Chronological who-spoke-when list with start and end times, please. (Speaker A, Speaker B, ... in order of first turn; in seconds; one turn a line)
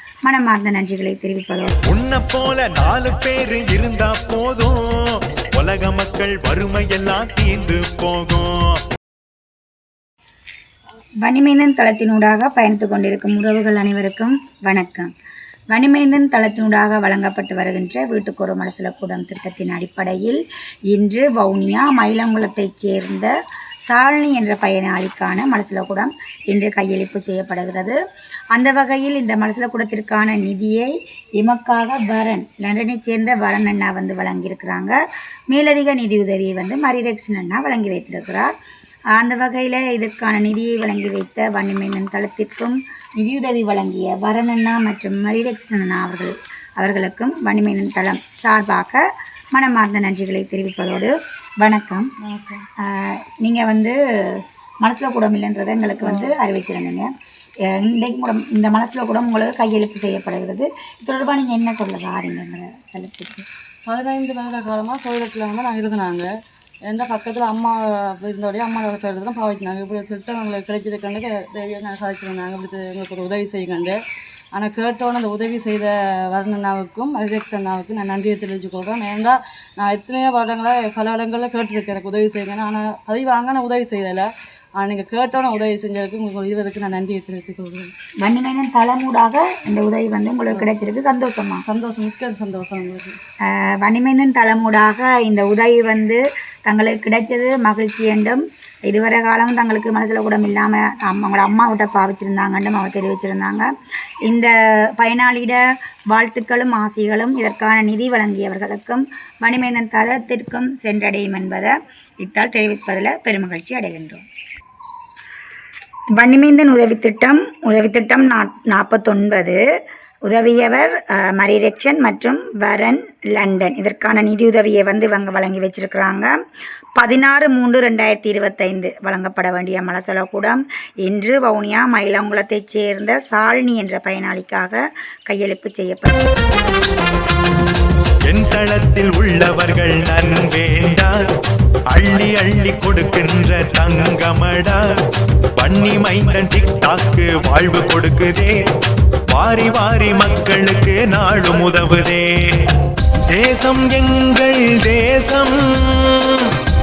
Speaker A: 0.2-1.7
Speaker B: 1.9-8.8
Speaker A: 11.2-15.1
Speaker A: 15.7-23.3
Speaker A: 23.9-28.0
Speaker A: 28.5-35.0
Speaker A: 35.5-38.5
Speaker A: 39.1-52.1
Speaker C: 52.2-52.7
Speaker A: 52.8-57.1
Speaker C: 56.0-56.4
Speaker A: 57.7-63.5
Speaker C: 63.9-66.3
Speaker C: 66.9-74.0
Speaker C: 74.5-84.3
Speaker C: 84.8-87.9
Speaker A: 88.2-91.6
Speaker C: 91.7-93.2
Speaker A: 93.5-103.7
Speaker A: 104.3-114.2
Speaker A: 116.2-119.6
Speaker A: 120.3-126.3
Speaker A: 127.0-136.3
Speaker B: 138.3-141.2
Speaker B: 141.9-144.9
Speaker B: 145.6-148.6
Speaker B: 149.3-152.7
Speaker B: 153.3-156.6